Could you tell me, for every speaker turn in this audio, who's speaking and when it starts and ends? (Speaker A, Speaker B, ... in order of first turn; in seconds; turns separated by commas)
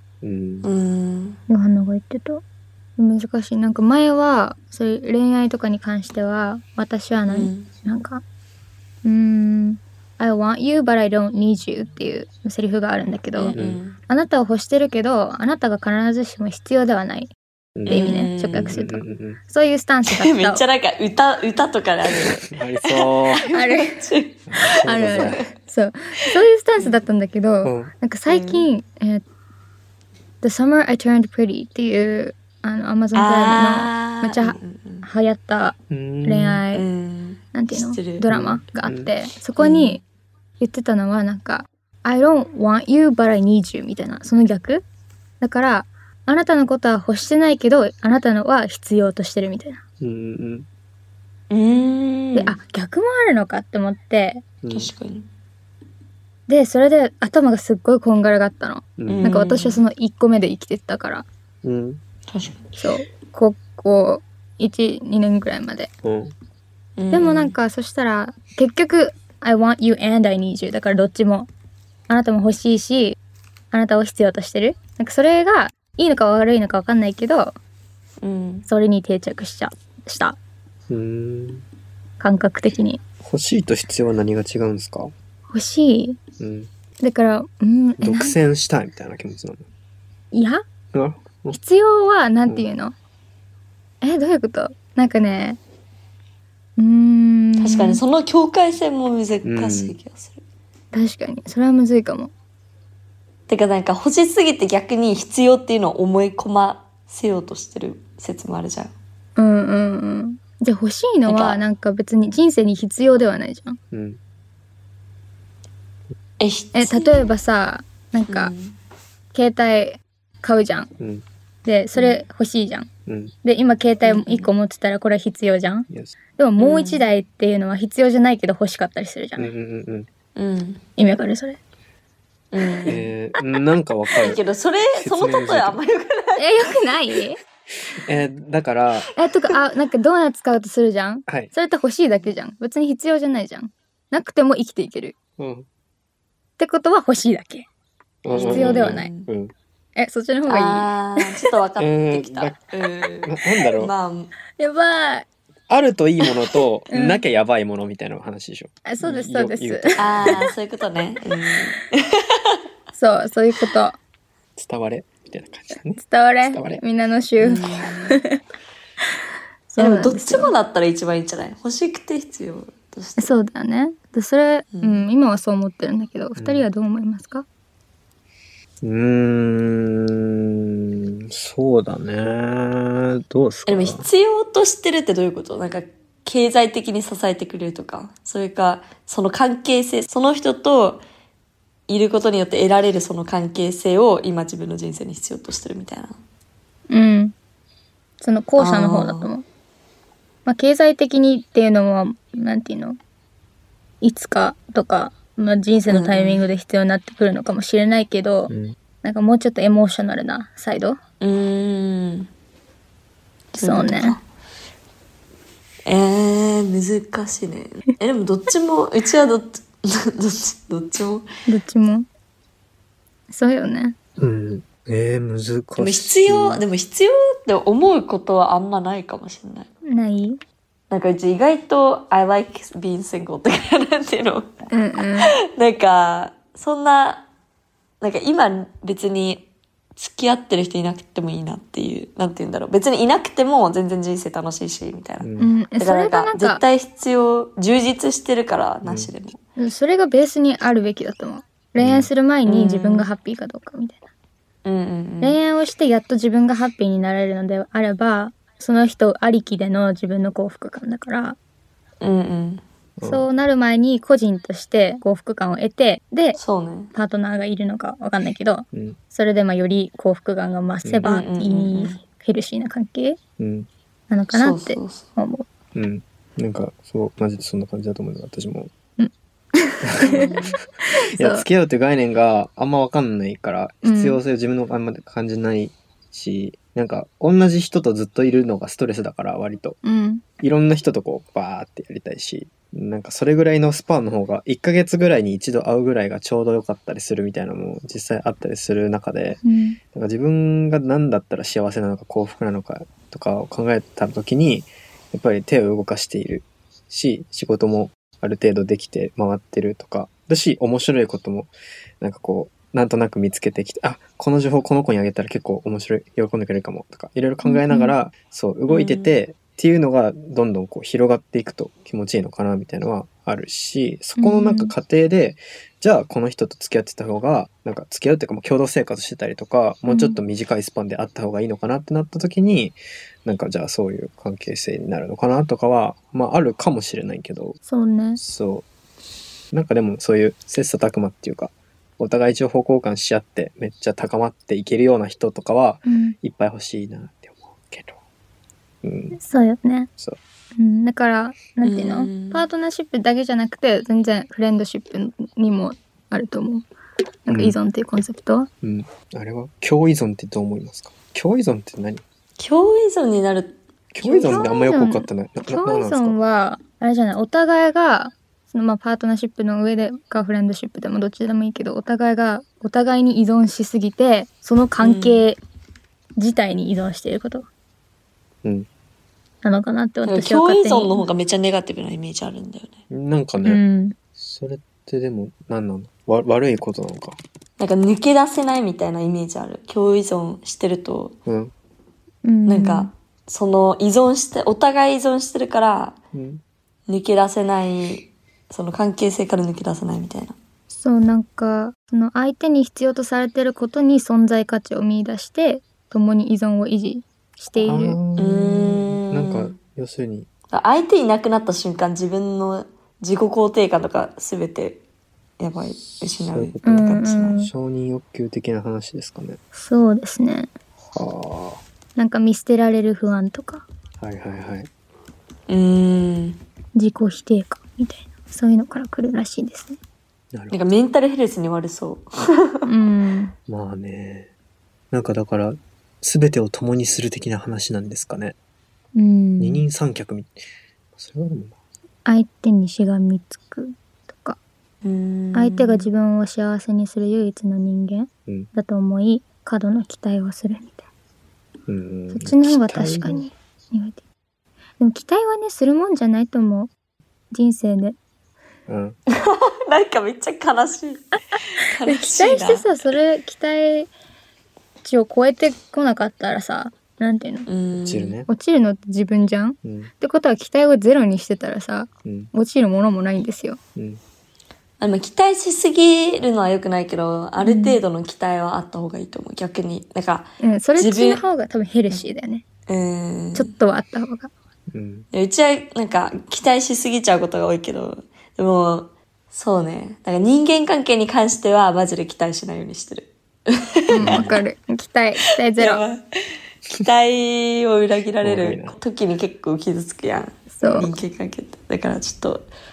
Speaker A: 0.2-0.7, Speaker B: 0.6-1.4, Speaker C: 1.5-2.4, Speaker C: 3.0-8.2, Speaker B: 7.3-7.7, Speaker C: 9.0-13.6, Speaker B: 13.3-14.0, Speaker A: 13.5-13.8, Speaker C: 14.1-17.3, Speaker A: 17.8-19.4, Speaker C: 17.9-20.6, Speaker B: 17.9-18.7, Speaker B: 20.1-25.4, Speaker A: 22.2-23.4, Speaker C: 23.5-24.1, Speaker A: 24.5-25.5, Speaker C: 24.8-29.2, Speaker A: 27.6-27.9, Speaker B: 28.3-28.7, Speaker C: 30.4-36.9, Speaker B: 33.1-35.0, Speaker A: 35.9-36.6, Speaker B: 36.7-38.2, Speaker C: 37.5-40.0, Speaker A: 38.3-39.1, Speaker B: 39.6-40.0, Speaker C: 40.6-44.8, Speaker C: 45.4-49.8, Speaker A: 50.0-50.7, Speaker B: 51.5-52.5, Speaker C: 52.3-54.4, Speaker A: 54.6-54.9, Speaker B: 54.7-55.2, Speaker C: 56.5-61.2, Speaker A: 59.0-59.3, Speaker B: 59.1-59.8, Speaker A: 61.6-62.0, Speaker B: 62.3-62.6, Speaker C: 62.7-65.9, Speaker A: 66.0-66.3, Speaker B: 67.0-67.5, Speaker C: 67.1-71.5, Speaker C: 72.1-73.2, Speaker C: 73.7-77.5, Speaker B: 78.2-78.7, Speaker C: 78.7-80.4, Speaker A: 80.9-81.6, Speaker C: 82.2-83.0, Speaker A: 83.2-85.1, Speaker C: 85.5-86.2, Speaker A: 86.4-86.7, Speaker C: 87.0-88.3, Speaker A: 88.0-89.6, Speaker C: 90.3-90.6, Speaker A: 90.9-91.6, Speaker C: 91.5-92.9, Speaker C: 94.0-95.6, Speaker C: 96.8-98.0, Speaker B: 97.6-100.4, Speaker A: 99.4-100.0, Speaker C: 100.9-102.3, Speaker B: 103.5-108.9, Speaker C: 109.4-113.8, Speaker B: 111.3-111.6, Speaker A: 113.9-114.2, Speaker B: 116.4-117.2, Speaker C: 116.7-118.5, Speaker B: 118.3-118.8, Speaker C: 119.3-120.9, Speaker A: 121.0-121.2, Speaker C: 121.6-122.9, Speaker A: 123.0-123.3, Speaker C: 123.4-129.5, Speaker B: 124.0-124.5, Speaker A: 125.9-126.2, Speaker B: 126.6-127.1, Speaker A: 129.4-130.1, Speaker B: 130.3-130.8, Speaker C: 131.0-131.6, Speaker B: 132.5-133.1, Speaker A: 132.8-134.4, Speaker B: 134.2-136.4, Speaker A: 134.9-135.8, Speaker C: 136.4-137.4, Speaker A: 137.8-139.1, Speaker C: 139.2-145.1, Speaker A: 141.3-141.5, Speaker A: 145.4-145.7, Speaker C: 146.6-147.7, Speaker A: 148.2-149.5, Speaker B: 148.3-149.3, Speaker C: 148.3-149.1, Speaker C: 149.9-151.5, Speaker B: 150.5-154.3, Speaker A: 151.8-152.6, Speaker A: 153.2-153.9, Speaker C: 154.6-155.3, Speaker A: 155.7-160.4, Speaker C: 156.9-157.2, Speaker C: 158.8-160.4, Speaker B: 160.0-162.6, Speaker C: 162.9-164.0, Speaker A: 164.6-166.8, Speaker C: 166.0-168.4, Speaker B: 167.4-168.2, Speaker C: 169.7-170.5, Speaker B: 169.8-173.3, Speaker C: 173.2-177.4, Speaker B: 174.7-175.1, Speaker A: 176.3-176.7, Speaker A: 178.8-184.1, Speaker B: 183.7-191.0, Speaker B: 191.9-196.2, Speaker C: 196.9-197.3, Speaker C: 198.2-199.4, Speaker B: 198.6-199.3, Speaker C: 200.4-203.0, Speaker C: 204.0-211.0, Speaker B: 205.9-206.4, Speaker A: 208.5-208.8, Speaker B: 211.2-212.3, Speaker B: 213.5-214.2, Speaker C: 213.6-214.2, Speaker B: 215.8-221.3, Speaker C: 221.4-222.1, Speaker C: 223.3-223.9, Speaker A: 224.2-226.6, Speaker B: 225.8-229.7, Speaker C: 229.8-230.4, Speaker B: 230.9-237.2, Speaker C: 234.7-235.3, Speaker B: 238.0-249.4, Speaker A: 245.2-245.5, Speaker C: 245.4-246.6, Speaker A: 248.8-249.1, Speaker C: 249.6-254.0, Speaker A: 251.8-252.1, Speaker B: 252.4-253.1, Speaker B: 254.6-255.4, Speaker C: 255.2-261.4, Speaker B: 262.0-262.6, Speaker A: 263.0-263.2, Speaker C: 263.0-266.4, Speaker B: 266.4-266.9, Speaker C: 266.9-273.2, Speaker A: 268.7-269.0, Speaker A: 270.8-271.1, Speaker B: 271.0-272.0, Speaker A: 273.4-273.7, Speaker C: 274.1-275.4, Speaker B: 274.3-275.1, Speaker A: 275.7-278.7, Speaker C: 279.0-280.3, Speaker A: 279.8-280.4, Speaker B: 280.1-280.6, Speaker C: 280.9-281.4, Speaker A: 281.1-289.8, Speaker C: 283.8-284.2, Speaker C: 289.8-290.2, Speaker A: 290.4-299.4, Speaker C: 299.4-299.8, Speaker A: 299.9-337.6, Speaker C: 317.4-317.9, Speaker B: 318.7-319.1, Speaker C: 324.2-324.7, Speaker C: 329.9-330.2, Speaker C: 337.7-338.2, Speaker A: 338.2-338.6, Speaker A: 339.5-348.0, Speaker C: 345.9-346.1, Speaker A: 348.8-349.2, Speaker C: 349.1-349.9, Speaker C: 350.6-356.6, Speaker B: 351.6-352.4, Speaker C: 357.2-358.5, Speaker A: 357.3-357.6, Speaker A: 358.6-362.0, Speaker B: 362.4-363.6, Speaker A: 363.9-366.2, Speaker C: 364.0-375.4, Speaker B: 374.8-375.2, Speaker C: 376.2-377.5, Speaker C: 379.4-381.0, Speaker B: 380.1-382.8, Speaker A: 382.9-383.6, Speaker C: 383.4-383.9, Speaker A: 384.2-387.2, Speaker B: 387.6-391.1, Speaker A: 391.3-391.5, Speaker C: 392.2-392.9, Speaker B: 392.4-396.0, Speaker A: 396.1-396.4, Speaker B: 396.9-400.4, Speaker C: 400.7-408.0, Speaker A: 407.6-410.3, Speaker B: 408.2-409.5, Speaker B: 410.5-414.8, Speaker B: 415.4-417.4, Speaker A: 416.2-416.8, Speaker C: 416.6-417.5, Speaker A: 417.4-419.4, Speaker C: 419.5-420.5, Speaker A: 420.9-421.6, Speaker C: 421.9-423.6, Speaker A: 424.0-424.7, Speaker B: 425.5-426.4, Speaker C: 426.7-429.8, Speaker A: 430.3-430.6, Speaker B: 430.5-432.7, Speaker C: 432.6-433.3, Speaker A: 433.5-434.3, Speaker A: 434.9-438.4, Speaker C: 438.9-439.6, Speaker A: 439.4-440.3, Speaker A: 440.9-441.5, Speaker C: 442.0-444.4, Speaker B: 444.8-445.9, Speaker C: 445.3-450.8, Speaker A: 451.7-453.2, Speaker C: 452.1-454.0, Speaker C: 454.8-456.7, Speaker C: 457.3-458.0, Speaker A: 458.7-458.9, Speaker B: 459.1-462.7, Speaker C: 461.8-463.9, Speaker C: 464.8-467.5, Speaker B: 467.4-468.2, Speaker A: 467.7-468.3, Speaker C: 468.3-473.6, Speaker A: 469.6-469.9, Speaker A: 472.0-472.3, Speaker A: 473.8-474.0, Speaker B: 474.8-481.2, Speaker C: 477.4-477.8, Speaker C: 480.4-482.4, Speaker B: 482.7-483.5, Speaker C: 483.3-484.3, Speaker A: 484.7-485.1, Speaker B: 485.1-494.3, Speaker C: 493.9-495.8, Speaker A: 494.0-494.4, Speaker B: 495.6-496.0, Speaker B: 496.7-502.5, Speaker A: 498.2-498.8, Speaker C: 500.5-500.9